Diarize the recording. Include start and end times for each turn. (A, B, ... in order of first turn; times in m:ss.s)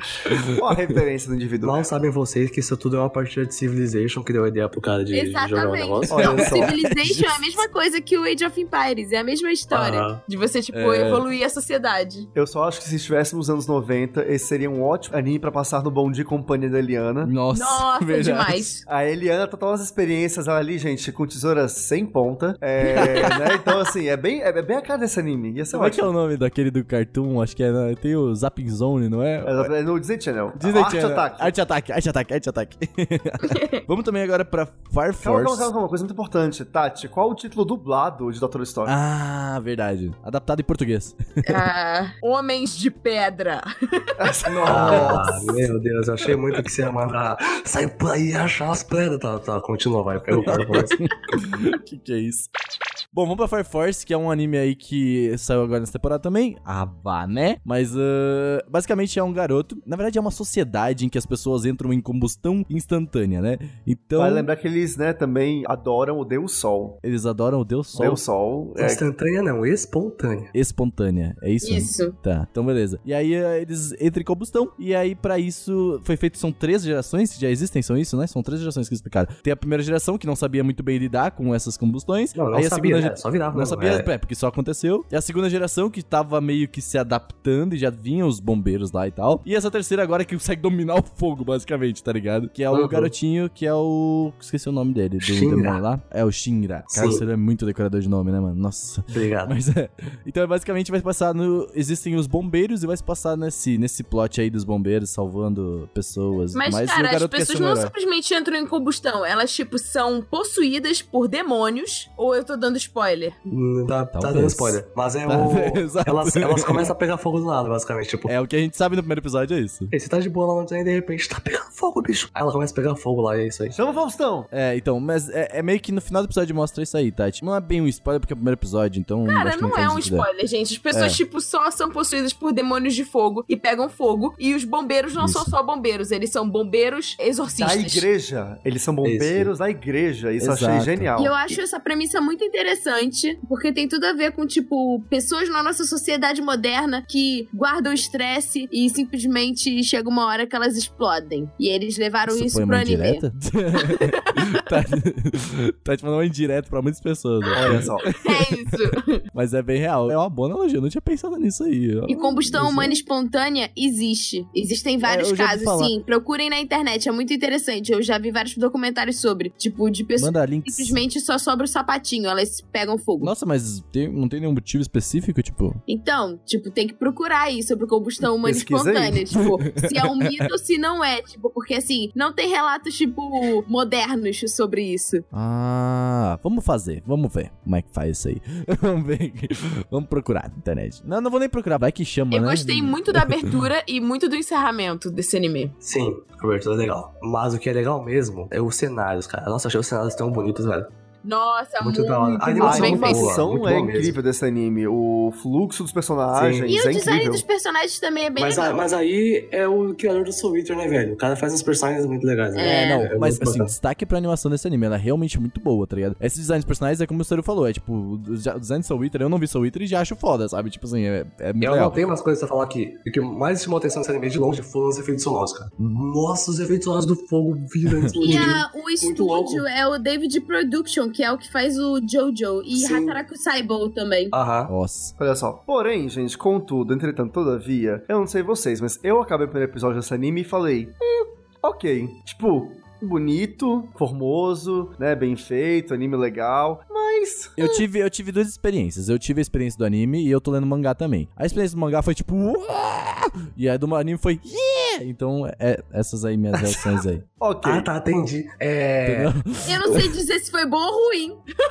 0:00.2-0:00.6 A
0:00.5-0:01.8 B
0:01.6-0:06.4 C
0:05.1-0:12.3 D
0:06.1-0:06.8 B
0:06.2-0:07.6 A
0:09.7-0:10.2 C
0:10.7-0:11.2 A
0:12.3-0:17.3 B
0:17.2-0:18.7 A
0:17.5-0:18.8 D
0:18.9-0:26.1 B
0:22.9-0:23.3 D
0:22.9-0:23.4 A
0:25.7-0:29.7 A
0:29.4-0:31.5 B
0:30.6-0:35.7 A
0:33.4-0:33.8 D
0:35.2-0:38.9 B
0:38.8-0:41.5 A
0:41.4-0:44.2 D
0:44.2-0:45.3 B
0:44.6-0:51.0 C
0:44.6-0:45.5 A
0:50.3-0:52.5 A
0:53.1-1:04.5 A
1:04.2-1:07.0 B
1:07.0-1:08.2 A
1:08.0-1:09.0 B
1:08.8-1:10.5 C
1:10.5-1:47.9 A
1:11.6-1:12.1 D
1:22.3-1:24.1 C
1:32.7-1:33.1 C
1:35.2-1:35.8 C
1:36.9-1:37.2 C
1:39.1-1:39.5 C
1:46.5-1:53.4 D
1:53.5-1:58.3 C
1:54.1-1:56.9 A
1:58.2-1:59.9 A
1:59.9-2:03.8 C
2:03.7-2:04.5 B
2:04.5-2:10.3 A
2:09.3-2:18.0 D
2:10.9-2:11.2 A
2:15.2-2:15.5 A
2:17.6-2:21.4 B
2:19.0-2:19.5 C
2:20.4-2:21.1 A
2:21.2-2:33.2 D
2:32.3-2:38.5 A
2:33.8-2:34.4 D
2:37.6-2:38.1 B
2:37.7-2:39.2 D
2:39.3-2:42.9 A
2:42.1-2:53.3 D
2:45.0-2:45.9 A
2:50.2-2:51.0 A
2:53.2-2:55.8 A
2:55.9-3:05.2 D
2:58.4-2:59.3 B
2:59.3-3:00.5 A
3:05.3-3:13.6 A
3:12.3-3:15.8 D
3:15.8-3:20.9 C
3:21.2-3:23.4 D
3:21.8-3:24.2 C
3:22.6-3:27.4 B
3:26.3-3:26.7 C
3:26.7-3:28.8 D
3:28.4-3:33.7 C
3:32.5-3:33.1 D
3:32.6-3:42.0 A
3:41.6-3:49.6 C
3:47.9-3:48.4 A
3:48.2-3:54.3 D
3:52.7-3:53.2 C
3:54.3-3:54.7 C
3:54.7-3:55.1 A
3:55.2-4:07.7 B
4:07.6-4:17.2 A
4:17.4-4:17.9 B
4:17.6-4:19.3 C
4:19.0-4:20.0 A
4:19.6-4:21.4 D